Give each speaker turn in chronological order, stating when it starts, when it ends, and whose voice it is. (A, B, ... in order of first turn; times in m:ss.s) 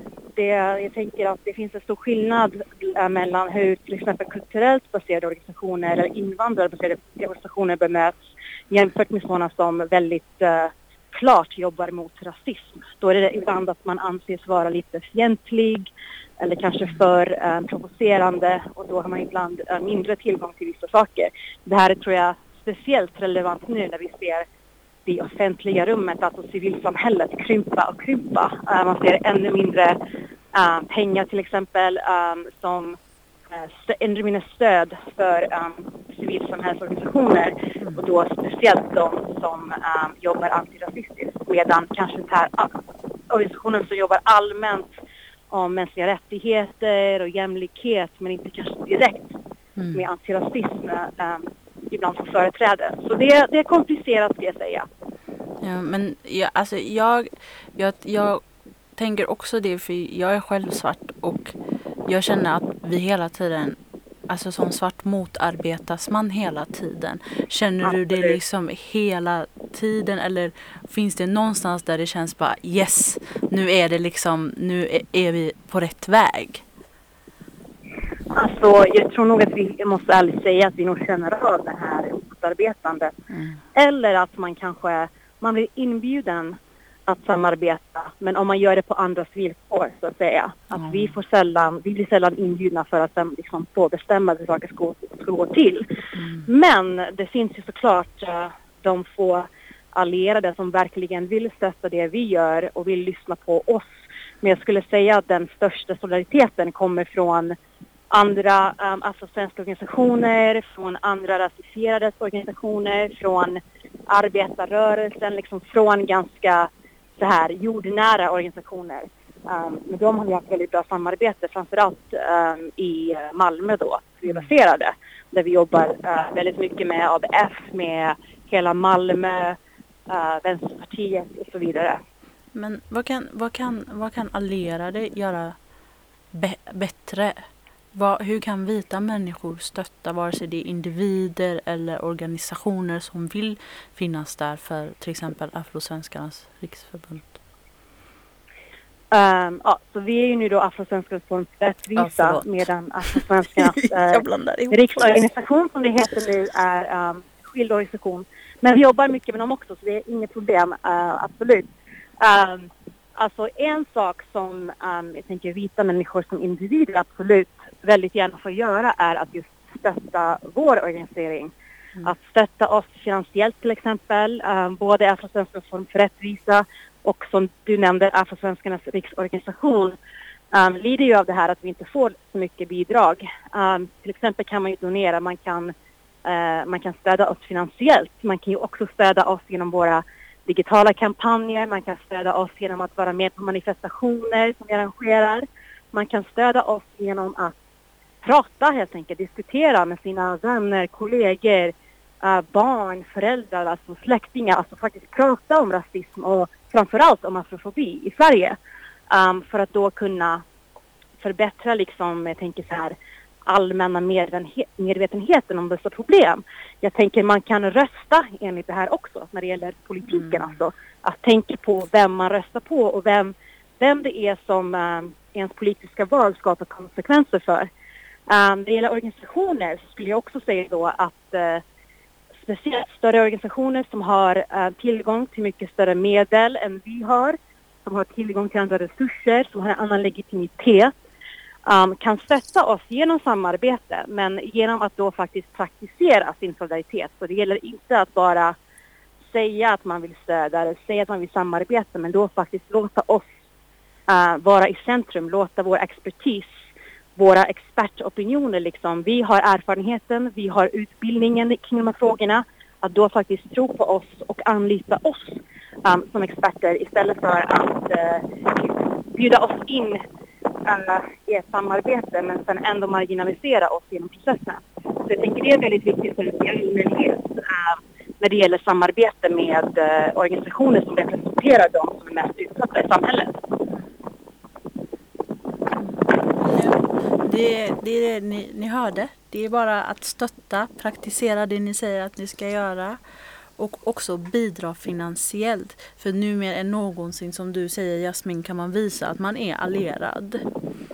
0:00.4-0:08.2 A
0:08.7-0:24.5 A
0:25.1-0:30.0 A
0:30.5-0:33.0 A
0:33.5-0:44.9 A
0:45.5-0:49.4 A
0:49.8-0:50.1 B
0:50.0-0:54.9 A
0:55.6-0:58.4 B
0:59.0-1:01.6 B
1:02.1-1:03.8 B
1:04.3-1:16.6 B
1:07.9-1:08.4 A
1:18.3-1:23.2 A
1:23.3-1:23.6 B
1:23.8-1:35.9 A
1:30.8-1:31.2 B
1:36.2-1:36.5 B
1:36.5-1:43.9 A
1:44.4-1:47.6 A
1:48.1-2:09.6 A
2:10.1-2:12.0 A
2:12.5-2:15.6 B
2:16.3-2:27.4 B
2:29.1-2:41.7 A
2:32.0-2:32.5 B
2:33.1-2:35.2 B
2:42.2-2:51.5 A
2:52.0-3:00.0 A
3:00.5-3:05.7 A
3:06.2-3:17.6 A
3:18.2-3:28.6 A
3:29.1-3:30.4 A
3:31.2-3:47.7 A
3:40.1-3:40.5 B
3:48.3-3:51.6 A
3:52.4-4:00.9 A
4:01.7-4:08.6 A
4:09.3-4:13.3 A
4:14.1-4:16.5 A
4:17.2-4:30.0 A
4:30.6-4:43.3 A
4:45.8-4:53.0 B
4:53.6-5:00.4 B